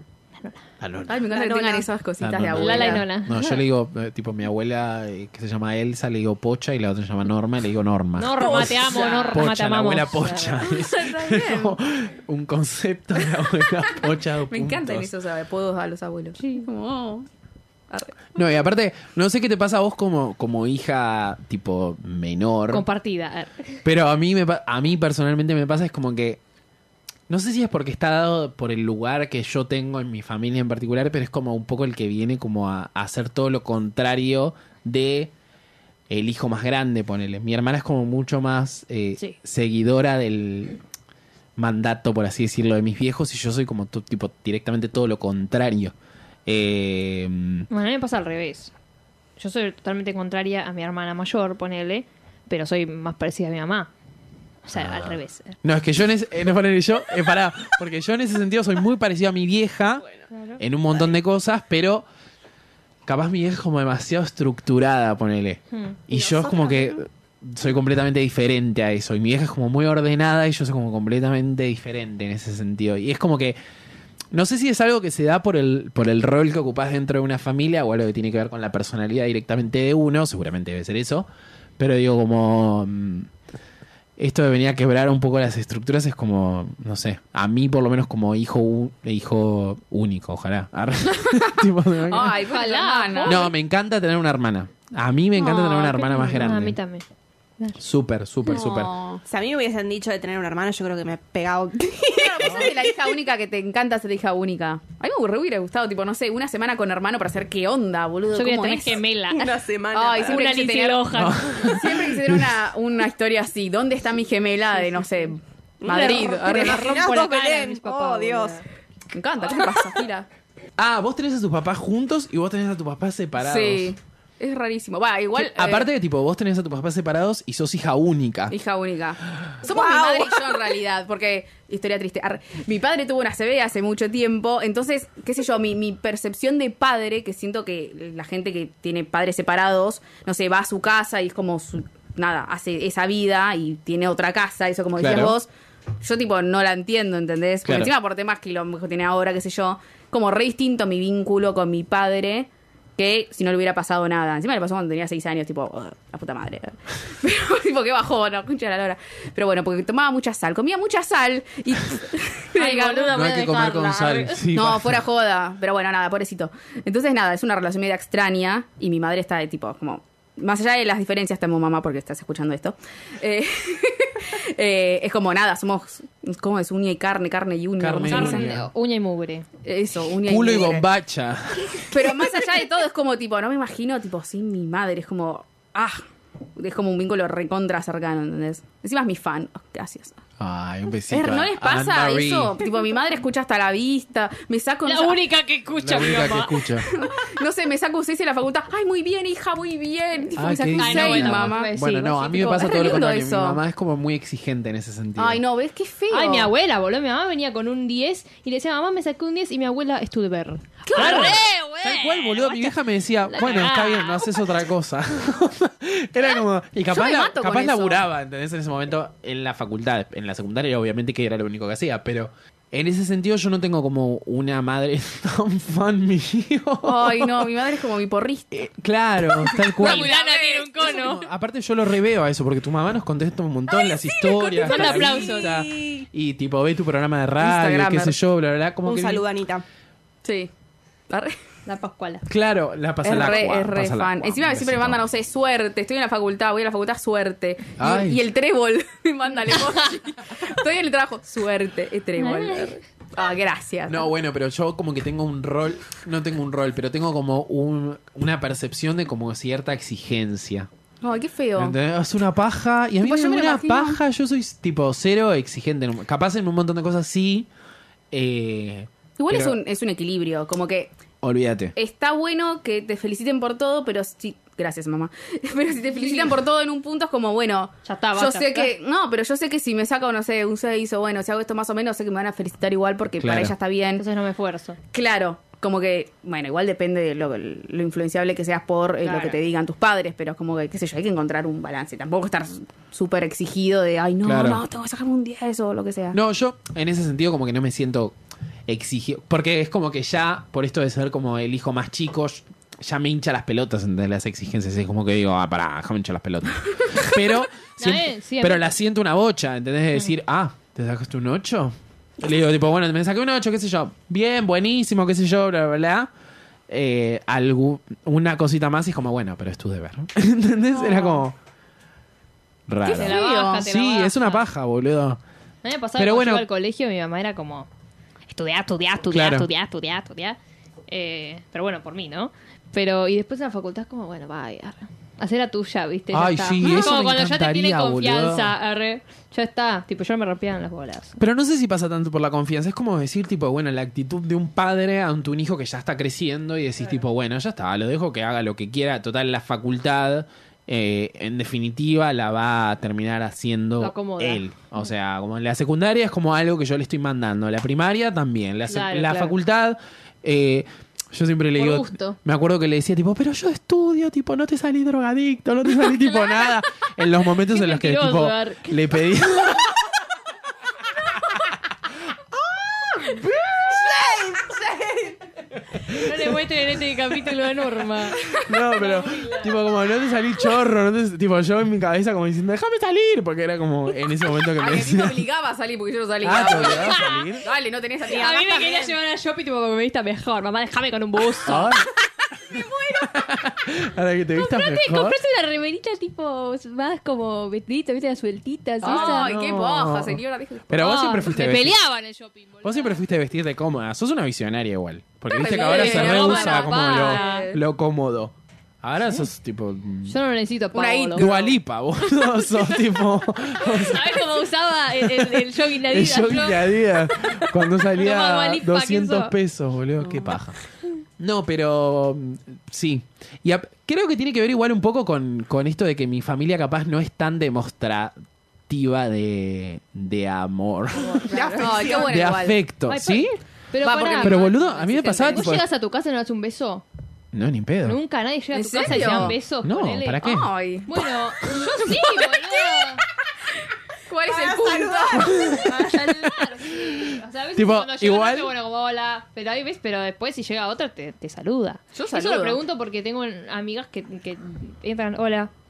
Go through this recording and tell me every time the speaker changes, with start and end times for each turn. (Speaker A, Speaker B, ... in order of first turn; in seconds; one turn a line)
Speaker A: 0.4-0.6
Speaker B: 0.8-1.2
Speaker C: 1.1-3.1
Speaker D: 1.3-1.9
Speaker B: 2.2-15.1
Speaker A: 2.5-3.6
Speaker A: 8.2-10.7
Speaker C: 8.4-9.4
Speaker C: 10.6-11.8
Speaker C: 14.5-17.3
Speaker C: 17.9-18.3
Speaker B: 18.4-22.9
Speaker A: 22.7-23.8
Speaker B: 23.8-26.4
Speaker B: 27.3-35.3
Speaker B: 36.1-40.8
Speaker B: 41.6-46.0
Speaker B: 46.5-47.7
Speaker A: 47.7-48.7
Speaker A: 49.4-53.9
Speaker A: 54.6-55.6
Speaker B: 54.7-60.0
Speaker A: 60.3-60.6
Speaker B: 60.6-62.1
Speaker B: 63.1-73.6
Speaker A: 65.7-66.0
Speaker D: 66.1-67.0
Speaker B: 74.3-81.3
Speaker B: 81.8-83.3
Speaker B: 84.2-92.4
Speaker C: 92.1-93.5
Speaker A: 92.4-93.5
Speaker B: 93.2-96.8
Speaker A: 95.4-97.0
Speaker B: 97.8-98.9
Speaker C: 98.5-99.2
Speaker D: 99.2-103.1
Speaker C: 102.1-109.0
Speaker A: 108.3-109.6
Speaker D: 109.3-110.7
Speaker C: 109.9-117.1
Speaker A: 110.2-111.7
Speaker B: 111.1-112.5
Speaker A: 114.8-115.3
Speaker D: 115.8-118.6
Speaker A: 115.9-118.7
Speaker C: 119.1-120.3
Speaker B: 120.8-123.9
Speaker C: 123.4-125.9
Speaker B: 125.3-128.6
Speaker C: 128.5-145.5
Speaker D: 129.7-130.6
Speaker B: 145.0-145.4
Speaker C: 146.0-163.3
Speaker B: 147.7-147.9
Speaker A: 162.6-164.4
Speaker B: 163.1-165.0
Speaker C: 164.5-178.6
Speaker B: 177.8-178.7
Speaker A: 178.1-179.5
Speaker C: 179.6-180.9
Speaker B: 180.2-182.3
Speaker C: 181.9-186.0
Speaker C: 186.6-190.2
Speaker B: 190.4-192.6
Speaker C: 191.1-195.2
Speaker A: 194.8-196.7
Speaker B: 195.8-196.9
Speaker C: 196.8-201.7
Speaker B: 200.4-205.4
Speaker A: 200.8-202.7
Speaker C: 202.3-203.6
Speaker C: 205.2-206.5
Speaker A: 206.1-212.8
Speaker C: 210.9-211.4
Speaker B: 210.9-227.5
Speaker A: 213.3-214.4
Speaker C: 216.9-218.0
Speaker C: 226.8-228.5
Speaker B: 228.5-230.2
Speaker C: 229.4-231.0
Speaker A: 229.8-231.3
Speaker B: 230.8-239.2
Speaker D: 233.9-236.1
Speaker A: 234.6-235.7
Speaker C: 237.4-238.2
Speaker D: 238.8-239.7
Speaker C: 240.2-240.5
Speaker C: 241.1-241.4
Speaker A: 241.7-242.3
Speaker B: 242.3-245.0
Speaker C: 243.0-254.1
Speaker B: 247.8-248.2
Speaker A: 252.2-252.8
Speaker B: 253.9-260.7
Speaker C: 261.0-261.8
Speaker B: 261.6-267.5
Speaker C: 263.0-264.0
Speaker B: 268.1-269.6
Speaker C: 269.2-270.9
Speaker B: 271.2-271.8
Speaker C: 271.8-284.0
Speaker A: 275.9-276.4
Speaker A: 277.9-278.7
Speaker B: 283.2-283.5
Speaker A: 284.0-284.8
Speaker C: 284.9-296.2
Speaker A: 289.1-289.4
Speaker B: 294.2-294.6
Speaker B: 296.1-298.2
Speaker B: 298.7-316.1
Speaker A: 307.8-308.6
Speaker B: 316.7-321.4
Speaker C: 320.7-321.2
Speaker B: 322.7-325.2
Speaker C: 322.8-323.6
Speaker A: 322.9-324.5
Speaker A: 325.6-327.7
Speaker B: 326.0-326.5
Speaker A: 328.3-341.2
Speaker B: 329.1-329.5
Speaker B: 336.1-338.5
Speaker B: 341.2-369.8
Speaker A: 353.8-354.4
Speaker A: 358.7-359.4
Speaker A: 361.6-362.2
Speaker A: 365.8-366.6
Speaker A: 367.3-368.9
Speaker B: 372.3-374.4
Speaker D: 373.7-375.2
Speaker B: 375.7-376.4
Speaker A: 375.9-379.5
Speaker B: 378.5-385.3
Speaker C: 384.6-388.9
Speaker B: 386.2-387.5
Speaker A: 386.6-387.4
Speaker A: 388.1-391.8
Speaker D: 388.1-388.8
Speaker B: 391.4-391.9
Speaker B: 392.5-395.2
Speaker A: 394.4-399.4
Speaker C: 398.8-400.9
Speaker B: 398.9-401.8
Speaker A: 400.8-403.0
Speaker B: 402.6-410.2
Speaker C: 405.3-407.6
Speaker A: 405.4-407.5
Speaker A: 410.1-411.5
Speaker C: 410.7-411.5
Speaker B: 411.1-414.3
Speaker A: 413.6-419.3
Speaker B: 415.0-420.6
Speaker B: 421.2-428.2
Speaker B: 428.7-433.3
Speaker C: 431.1-432.6
Speaker D: 431.2-432.3
Speaker A: 432.9-436.9
Speaker C: 433.8-434.4
Speaker B: 434.2-435.6
Speaker B: 437.3-438.0
Speaker A: 437.9-440.3
Speaker C: 438.5-439.4
Speaker B: 438.8-440.5
Speaker C: 440.2-440.9
Speaker A: 440.9-443.0
Speaker C: 441.5-442.6
Speaker C: 444.1-445.7
Speaker D: 444.3-445.7
Speaker B: 445.1-446.1
Speaker A: 445.4-455.5
Speaker B: 446.7-448.5
Speaker C: 451.9-452.6